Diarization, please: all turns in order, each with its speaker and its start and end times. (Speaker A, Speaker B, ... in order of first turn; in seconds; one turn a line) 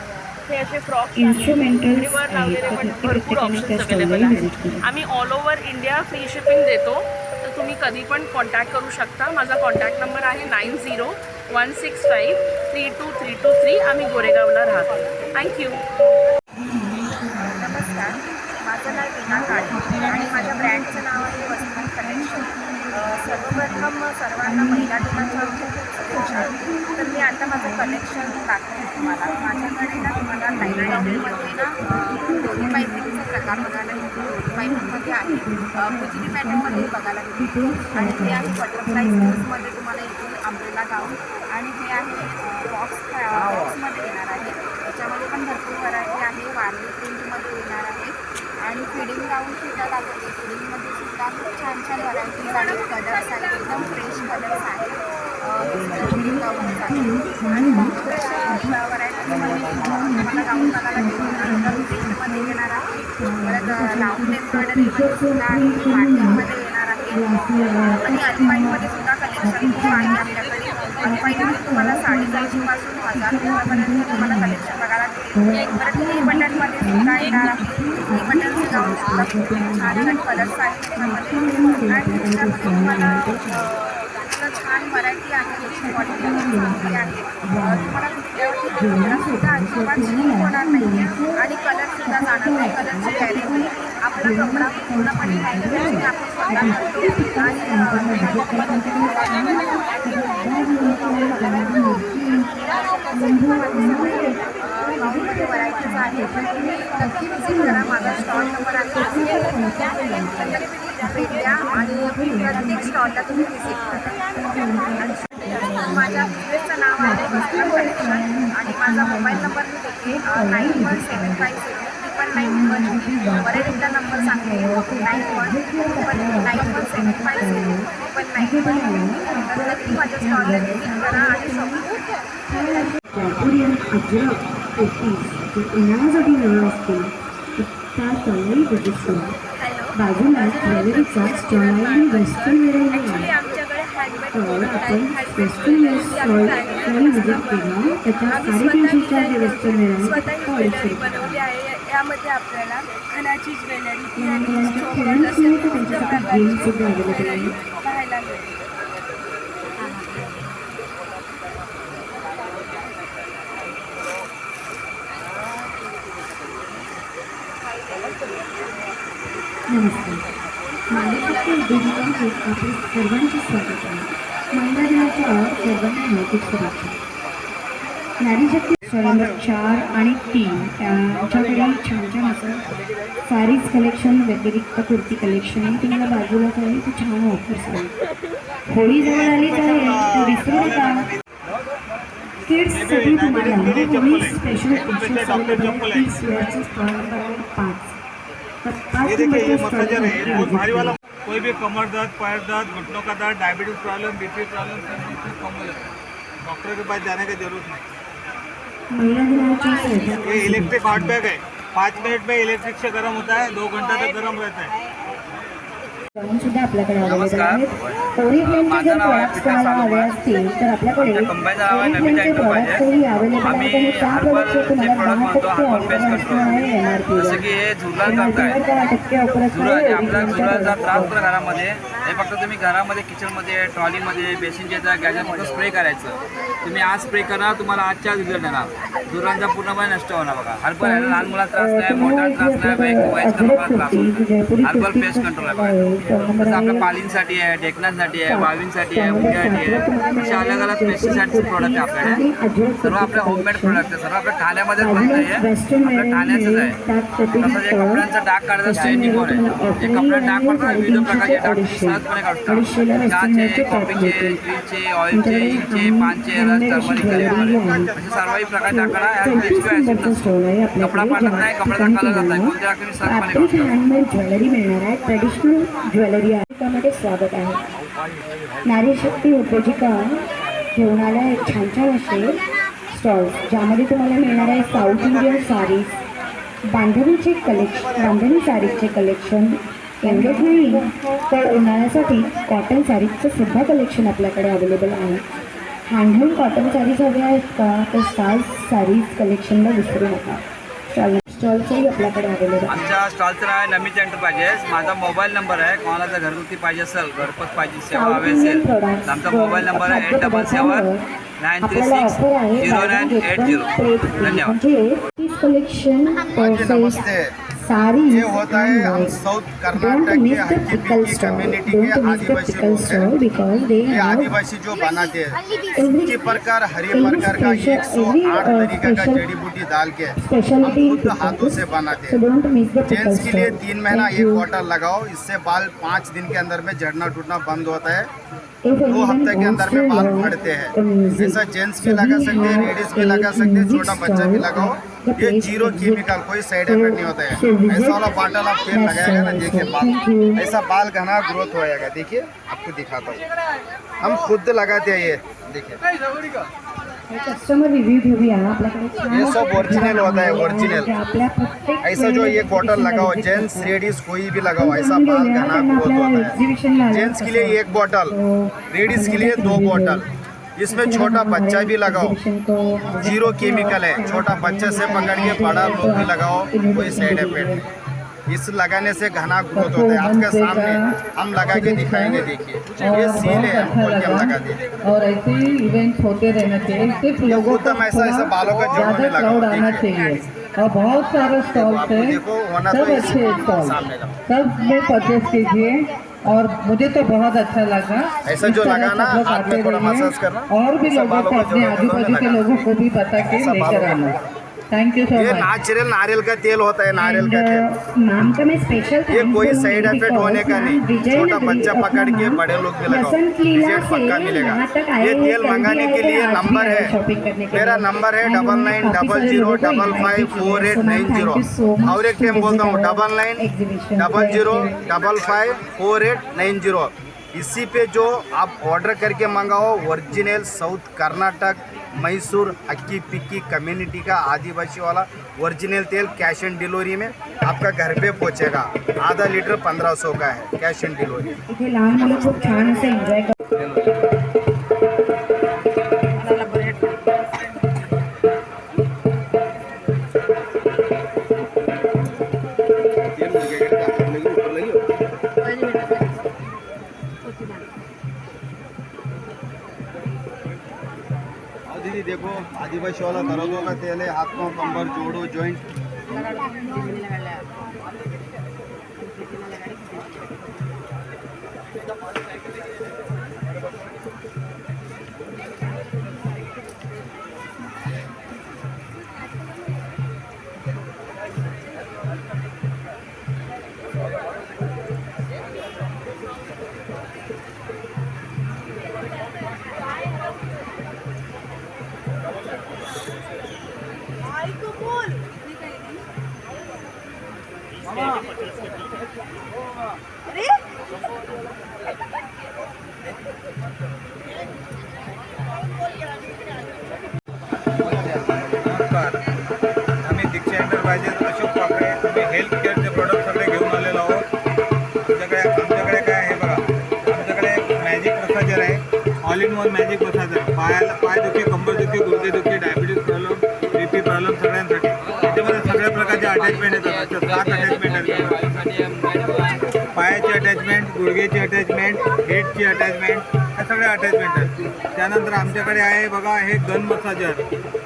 Speaker A: 0.5-15.8
Speaker B: 1.1-4.8
Speaker B: 16.5-18.2
Speaker C: 17.5-62.9
Speaker B: 18.9-39.4
Speaker B: 55.9-62.6
Speaker B: 63.1-66.5
Speaker C: 63.4-83.7
Speaker B: 67.1-70.3
Speaker B: 71.0-74.7
Speaker B: 75.3-83.7
Speaker C: 84.3-100.3
Speaker B: 85.6-88.0
Speaker B: 88.7-91.5
Speaker B: 92.0-121.6
Speaker C: 101.0-102.0
Speaker C: 103.1-114.0
Speaker C: 115.0-132.0
Speaker B: 122.3-131.9
Speaker B: 132.5-139.3
Speaker C: 139.6-158.5
Speaker B: 139.9-143.3
Speaker B: 144.3-151.4
Speaker B: 154.2-157.5
Speaker C: 159.8-160.3
Speaker B: 169.7-170.2
Speaker B: 170.9-177.0
Speaker B: 178.2-182.6
Speaker B: 183.2-187.9
Speaker B: 188.7-191.1
Speaker D: 189.0-191.2
Speaker B: 192.4-198.0
Speaker D: 192.7-196.2
Speaker B: 198.6-200.9
Speaker D: 199.0-205.8
Speaker D: 206.4-207.8
Speaker B: 208.9-211.2
Speaker D: 210.2-214.7
Speaker B: 216.2-227.5
Speaker E: 217.0-220.1
Speaker E: 221.0-222.8
Speaker E: 223.4-228.6
Speaker B: 228.0-231.1
Speaker E: 229.5-244.1
Speaker B: 240.8-246.9
Speaker E: 244.6-245.8
Speaker E: 246.3-252.2
Speaker B: 248.3-253.8
Speaker E: 252.8-256.8
Speaker B: 254.8-258.1
Speaker E: 257.4-270.2
Speaker B: 258.6-264.4
Speaker B: 265.1-267.9
Speaker D: 266.9-269.2
Speaker B: 268.7-277.6
Speaker E: 270.8-273.7
Speaker B: 278.6-280.2
Speaker B: 280.7-282.4
Speaker B: 282.9-286.0
Speaker B: 286.7-295.2
Speaker B: 295.9-302.9
Speaker E: 302.7-310.9
Speaker B: 307.9-311.0
Speaker E: 311.4-314.6
Speaker B: 311.6-317.0
Speaker F: 316.3-317.3
Speaker B: 317.6-319.2
Speaker F: 318.1-323.1
Speaker B: 319.7-324.3
Speaker F: 323.8-325.4
Speaker B: 325.8-326.2
Speaker F: 325.9-332.2
Speaker B: 326.9-329.2
Speaker B: 330.2-334.5
Speaker F: 332.9-338.1
Speaker B: 338.6-348.1
Speaker F: 338.9-353.2
Speaker B: 348.7-350.4
Speaker F: 354.0-355.8
Speaker B: 357.1-363.8
Speaker F: 359.1-360.9
Speaker F: 361.8-366.3
Speaker B: 364.6-370.0
Speaker F: 366.9-368.1
Speaker F: 368.7-370.0
Speaker F: 370.6-372.1
Speaker B: 370.7-377.6
Speaker F: 373.0-377.6
Speaker F: 378.3-384.6
Speaker G: 379.5-380.9
Speaker G: 381.5-382.3
Speaker G: 382.8-404.2
Speaker F: 387.3-389.9
Speaker F: 391.5-394.1
Speaker F: 398.2-402.7
Speaker F: 403.3-404.1
Speaker G: 404.7-405.5
Speaker F: 405.1-407.7
Speaker B: 407.0-424.7
Speaker F: 409.1-416.9
Speaker F: 417.5-423.4
Speaker F: 424.0-441.3
Speaker B: 441.5-443.4
Speaker F: 453.1-454.8
Speaker F: 461.7-465.6
Speaker D: 507.8-509.2
Speaker D: 510.0-514.2
Speaker D: 515.1-528.3
Speaker E: 525.0-529.6
Speaker D: 529.9-537.4